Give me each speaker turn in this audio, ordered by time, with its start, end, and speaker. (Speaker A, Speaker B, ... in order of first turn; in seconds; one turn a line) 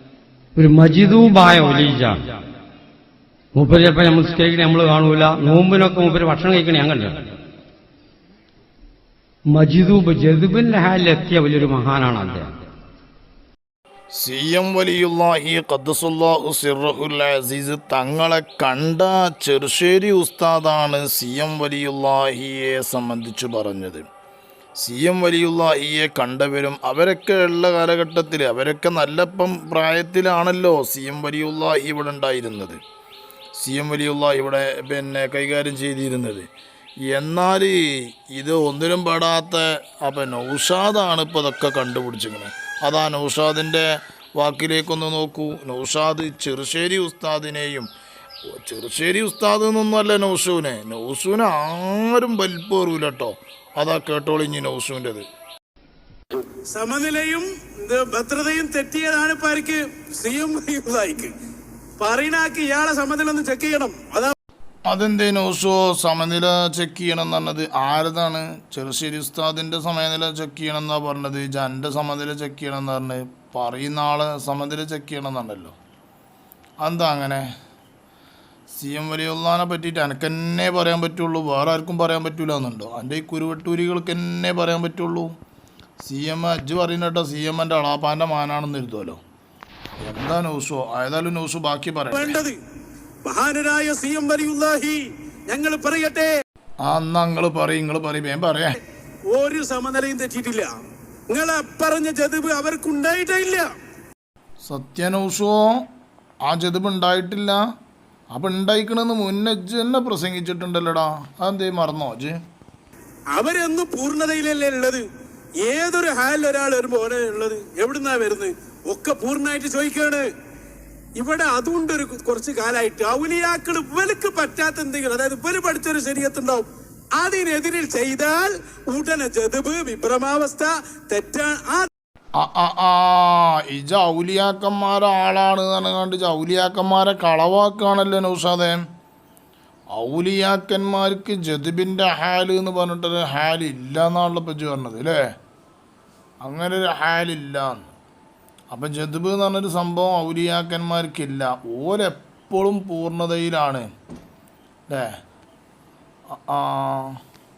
Speaker A: 0.6-2.2
Speaker A: 3.5-7.3
Speaker A: 9.5-12.6
Speaker B: 14.2-24.0
Speaker B: 24.8-32.8
Speaker B: 33.6-36.5
Speaker B: 37.1-47.9
Speaker B: 48.5-55.2
Speaker C: 56.7-61.3
Speaker C: 62.0-64.3
Speaker B: 64.9-75.7
Speaker B: 76.8-77.5
Speaker B: 78.7-85.3
Speaker B: 86.0-89.2
Speaker B: 90.0-92.4
Speaker C: 92.1-92.6
Speaker C: 93.2-96.3
Speaker B: 96.8-98.8
Speaker C: 99.3-100.7
Speaker C: 101.3-103.7
Speaker B: 104.7-105.8
Speaker B: 106.5-107.6
Speaker B: 108.3-112.4
Speaker C: 113.3-115.0
Speaker C: 115.6-120.2
Speaker C: 121.2-131.9
Speaker B: 132.4-138.8
Speaker B: 139.9-145.2
Speaker B: 146.4-147.9
Speaker B: 148.7-153.8
Speaker B: 156.3-157.2